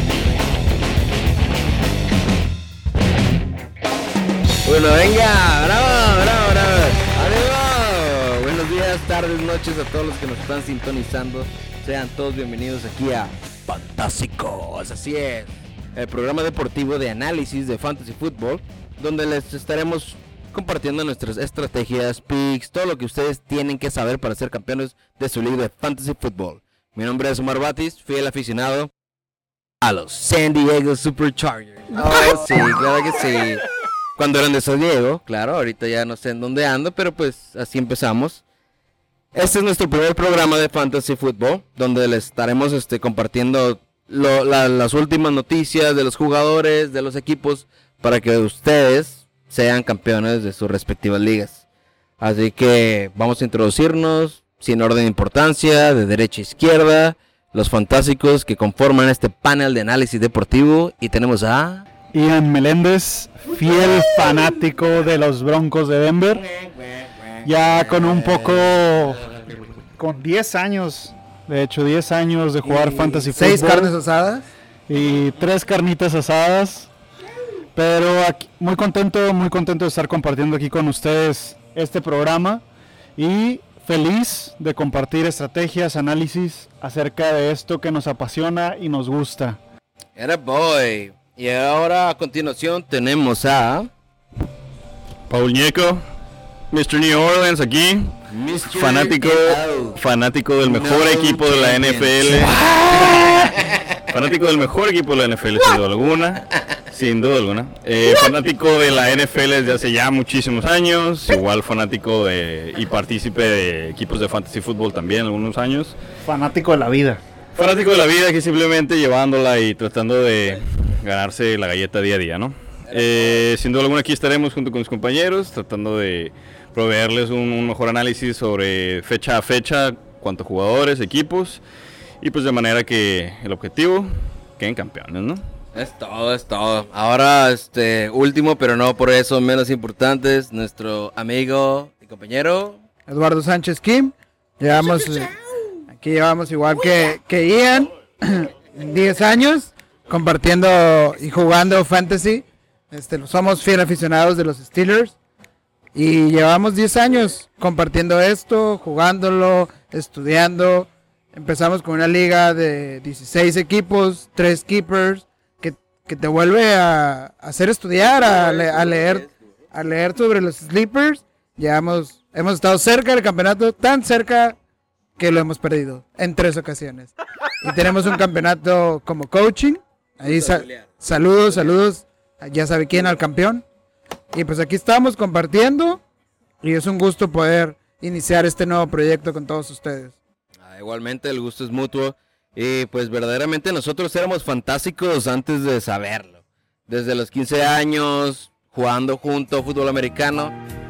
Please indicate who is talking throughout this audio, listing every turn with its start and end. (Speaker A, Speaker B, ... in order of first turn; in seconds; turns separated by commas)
Speaker A: 4.6-28.9, Speaker A: 29.8-33.6, Speaker A: 34.2-38.4, Speaker A: 39.3-51.6, Speaker A: 52.2-61.8, Speaker B: 62.1-66.4, Speaker A: 66.4-68.7, Speaker B: 67.4-69.2, Speaker B: 70.0-73.9, Speaker C: 72.6-74.4, Speaker B: 74.9-76.9, Speaker B: 77.8-82.6, Speaker B: 83.2-89.6, Speaker A: 90.2-93.9, Speaker D: 95.3-96.0, Speaker D: 96.7-103.5, Speaker A: 98.3-100.0, Speaker A: 100.6-103.8, Speaker D: 104.1-116.0, Speaker B: 116.2-117.2, Speaker D: 117.5-131.6, Speaker D: 132.2-135.4, Speaker A: 135.7-142.8, Speaker C: 143.1-145.3, Speaker C: 145.9-155.2, Speaker C: 155.9-174.6, Speaker A: 168.1-169.1, Speaker C: 175.2-183.6, Speaker A: 180.2-180.7, Speaker C: 184.3-186.0, Speaker C: 186.6-190.2, Speaker A: 190.6-200.5